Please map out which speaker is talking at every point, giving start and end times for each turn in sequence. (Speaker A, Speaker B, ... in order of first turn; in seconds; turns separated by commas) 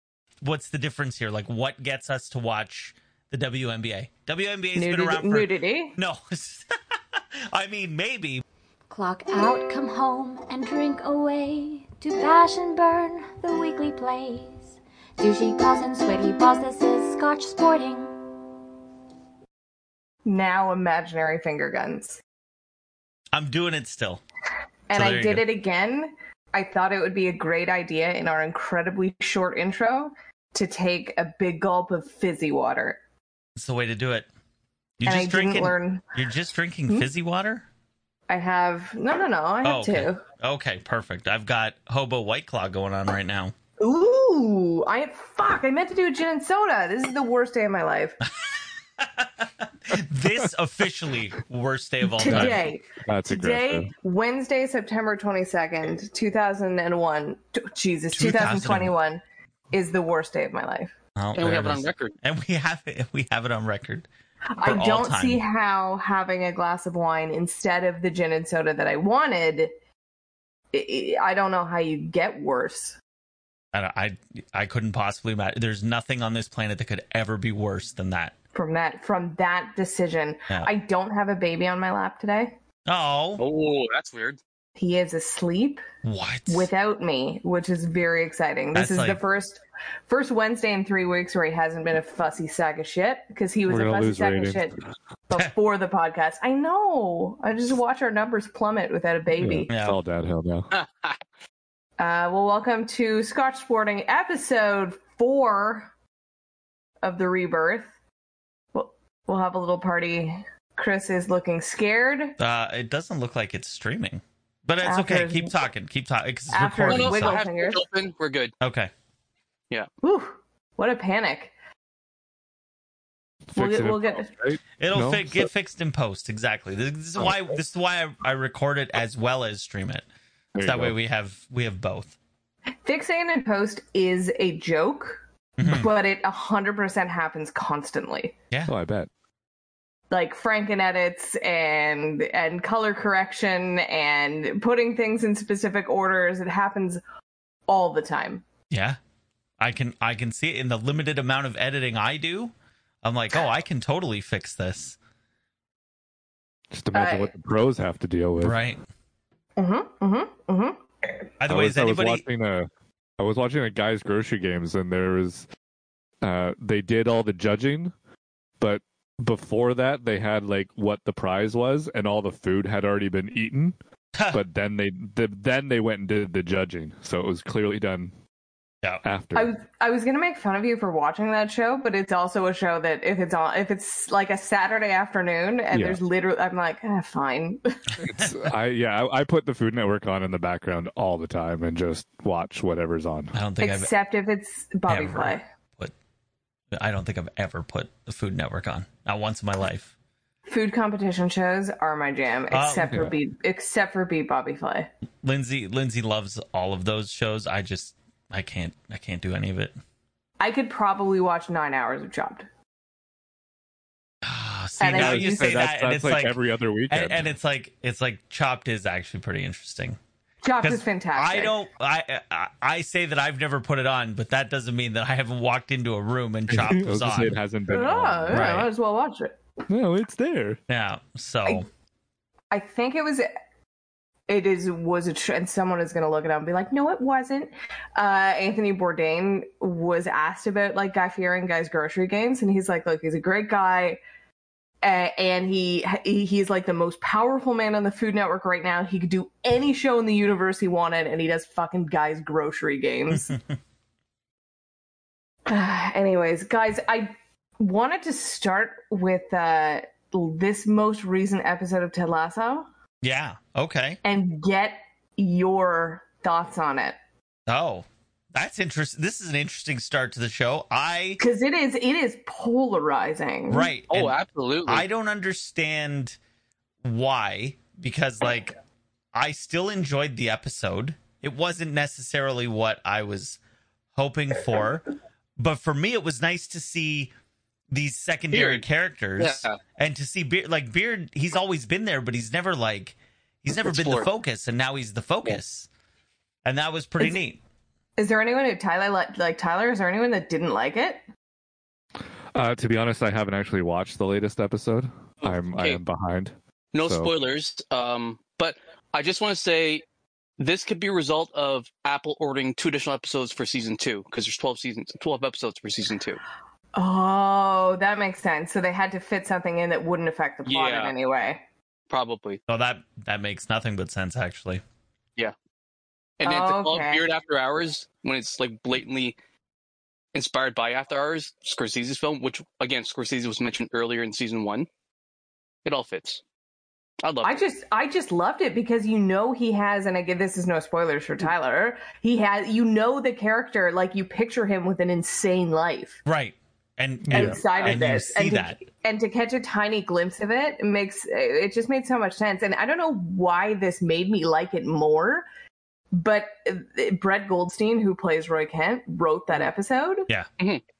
Speaker A: 0.4-8.4, Speaker B: 4.8-6.0, Speaker C: 8.9-18.2, Speaker B: 20.2-22.2, Speaker A: 23.3-24.2, Speaker B: 24.9-33.0, Speaker A: 24.9-25.4, Speaker A: 33.6-34.3, Speaker A: 35.0-37.7, Speaker B: 35.1-36.0, Speaker B: 38.3-40.2, Speaker A: 39.6-43.5, Speaker B: 43.8-48.2, Speaker A: 49.0-52.6, Speaker B: 52.2-60.9, Speaker D: 52.2-53.9, Speaker A: 58.1-58.9, Speaker A: 61.2-64.1, Speaker E: 61.4-62.1, Speaker B: 64.5-69.7, Speaker A: 64.6-65.4, Speaker B: 70.7-73.0, Speaker A: 73.7-78.3, Speaker B: 78.5-82.5, Speaker A: 82.9-83.4, Speaker E: 83.4-84.4, Speaker B: 84.8-85.8, Speaker A: 86.0-86.7, Speaker B: 86.5-94.8, Speaker A: 88.7-89.2, Speaker D: 93.7-94.8, Speaker B: 95.3-99.7, Speaker D: 99.4-100.7, Speaker A: 99.7-100.0, Speaker E: 100.7-101.2, Speaker B: 102.0-105.9, Speaker B: 107.0-107.9, Speaker B: 108.7-112.4, Speaker A: 112.4-117.4, Speaker B: 114.8-115.6, Speaker B: 116.5-117.8, Speaker E: 116.9-118.5, Speaker A: 118.6-118.9, Speaker B: 120.0-121.5, Speaker D: 123.5-125.5, Speaker B: 123.6-124.3, Speaker A: 124.8-130.1, Speaker D: 127.2-127.4, Speaker D: 130.6-131.0, Speaker A: 130.6-132.2, Speaker B: 132.8-138.3, Speaker A: 135.6-135.9, Speaker D: 138.7-139.1, Speaker B: 140.1-147.0, Speaker B: 147.7-148.4, Speaker A: 148.7-149.0, Speaker A: 149.6-155.0, Speaker D: 156.7-158.6, Speaker B: 156.9-157.3, Speaker A: 158.4-158.8, Speaker B: 159.6-160.8, Speaker A: 161.4-162.2, Speaker D: 161.5-165.5, Speaker D: 166.2-167.9, Speaker D: 168.6-173.8, Speaker A: 174.2-174.4, Speaker D: 174.3-178.1, Speaker D: 179.0-179.5, Speaker B: 179.3-187.8, Speaker D: 185.7-186.0, Speaker A: 188.0-188.3, Speaker D: 188.1-193.3, Speaker A: 193.3-193.9, Speaker B: 193.6-195.4, Speaker A: 194.9-195.9, Speaker A: 196.8-199.9, Speaker B: 200.5-204.9, Speaker A: 202.5-203.0, Speaker D: 202.8-203.2, Speaker A: 205.2-209.8, Speaker B: 210.4-212.5, Speaker A: 214.2-216.3, Speaker B: 214.8-215.7, Speaker D: 214.9-217.3, Speaker A: 216.9-220.0, Speaker B: 220.4-221.6, Speaker A: 220.6-227.4, Speaker D: 226.5-228.6, Speaker B: 227.7-229.4, Speaker A: 228.3-228.7, Speaker D: 229.7-230.6, Speaker A: 230.7-231.7, Speaker B: 232.5-233.3, Speaker B: 234.3-244.0, Speaker B: 244.8-253.3, Speaker A: 253.1-253.4, Speaker B: 255.5-262.7, Speaker A: 263.0-264.0, Speaker B: 264.0-267.0, Speaker A: 267.5-271.2, Speaker B: 271.2-273.7, Speaker A: 273.5-276.2, Speaker E: 273.9-274.9, Speaker A: 276.8-278.6, Speaker A: 279.1-283.4, Speaker A: 283.9-284.9, Speaker A: 285.4-287.1, Speaker A: 287.7-295.7, Speaker E: 288.3-288.6, Speaker E: 289.2-289.6, Speaker E: 293.6-294.1, Speaker A: 296.4-297.4, Speaker B: 298.0-301.0, Speaker D: 302.3-307.1, Speaker E: 305.2-305.8, Speaker E: 306.7-309.8, Speaker E: 310.4-316.2, Speaker B: 316.8-321.4, Speaker E: 320.5-320.9, Speaker E: 321.9-322.4, Speaker A: 322.5-324.6, Speaker E: 326.2-329.1, Speaker B: 326.2-327.0, Speaker E: 330.1-334.7, Speaker E: 335.6-336.2, Speaker E: 337.0-337.4, Speaker B: 337.2-346.0, Speaker A: 346.1-348.6, Speaker D: 347.0-347.4, Speaker B: 347.1-355.2, Speaker B: 355.9-360.1